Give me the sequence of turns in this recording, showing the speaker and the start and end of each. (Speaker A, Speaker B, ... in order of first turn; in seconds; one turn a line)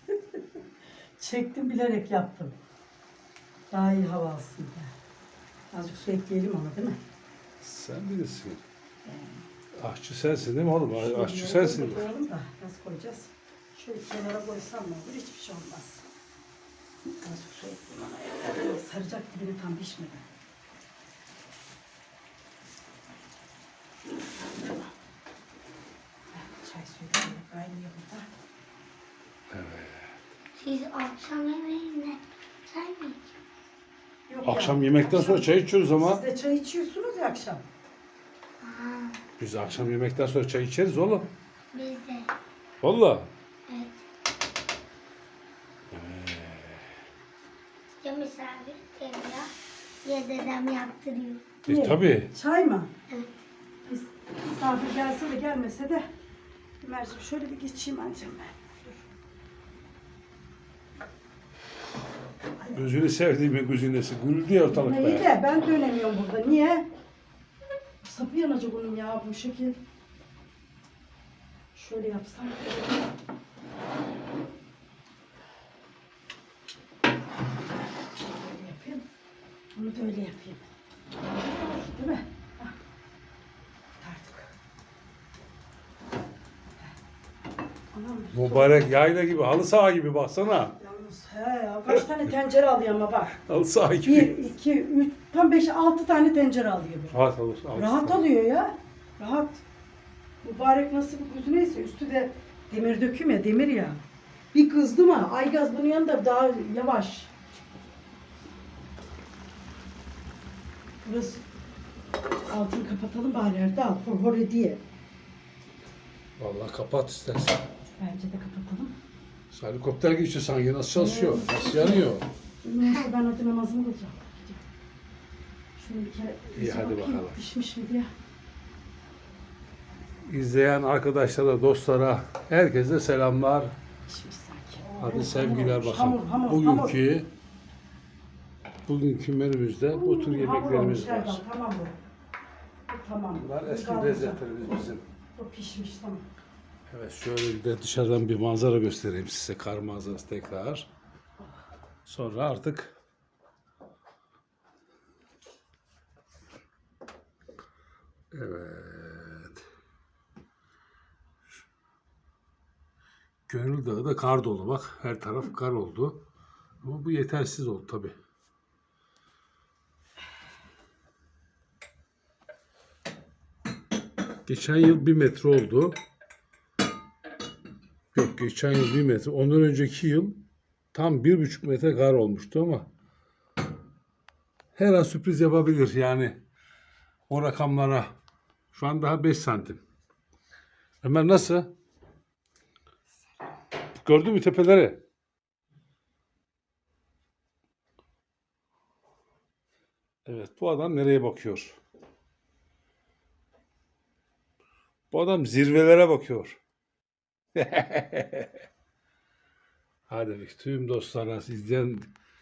Speaker A: 1.2-2.5
Speaker A: 3.7-4.9
Speaker A: 5.7-7.0
Speaker B: 7.6-8.6
Speaker A: 9.1-9.4
Speaker B: 9.8-12.1
Speaker A: 10.9-16.1
Speaker A: 17.2-20.3
Speaker A: 26.3-28.3
Speaker B: 29.5-30.2
Speaker C: 30.6-33.3
Speaker A: 34.3-37.6
Speaker B: 34.4-36.2
Speaker C: 38.6-39.2
Speaker B: 39.4-41.3
Speaker C: 41.7-42.3
Speaker B: 42.8-43.3
Speaker C: 43.7-44.0
Speaker B: 45.9-46.9
Speaker C: 48.0-49.5
Speaker C: 50.0-51.5
Speaker B: 51.7-52.3
Speaker A: 51.7-52.9
Speaker A: 53.9-56.1
Speaker A: 56.8-59.0
Speaker A: 62.6-62.8
Speaker B: 62.7-65.3
Speaker A: 64.7-66.9
Speaker A: 68.0-69.8
Speaker A: 71.8-73.1
Speaker A: 78.2-79.1
Speaker A: 79.8-80.7
Speaker A: 81.2-82.8
Speaker A: 84.0-84.5
Speaker A: 87.9-88.8
Speaker B: 88.3-90.8
Speaker A: 90.8-93.4
Speaker B: 93.3-94.3
Speaker A: 94.0-97.2
Speaker B: 97.1-98.3
Speaker A: 97.8-99.6
Speaker A: 100.4-104.0
Speaker A: 104.5-107.3
Speaker A: 111.0-111.4
Speaker A: 112.5-114.8
Speaker B: 116.4-117.7
Speaker A: 118.0-119.0
Speaker B: 119.5-122.3
Speaker A: 121.0-122.1
Speaker A: 122.6-124.6
Speaker A: 125.8-128.1
Speaker B: 126.5-127.4
Speaker B: 130.2-133.8
Speaker A: 134.1-137.0
Speaker B: 135.0-137.3
Speaker B: 138.9-141.4
Speaker A: 139.9-142.0
Speaker A: 142.9-144.7
Speaker B: 143.4-145.0
Speaker A: 145.4-146.3
Speaker B: 146.9-150.9
Speaker A: 151.4-151.6
Speaker B: 152.1-152.9
Speaker B: 158.3-159.7
Speaker B: 163.5-166.2
Speaker B: 166.8-168.2
Speaker B: 174.5-176.0
Speaker B: 178.1-182.9
Speaker B: 184.8-186.4
Speaker B: 187.3-188.1
Speaker B: 188.7-189.8
Speaker B: 191.0-191.8
Speaker B: 193.9-195.0
Speaker B: 200.3-201.8
Speaker B: 205.1-206.6
Speaker B: 207.6-208.6
Speaker B: 210.1-212.1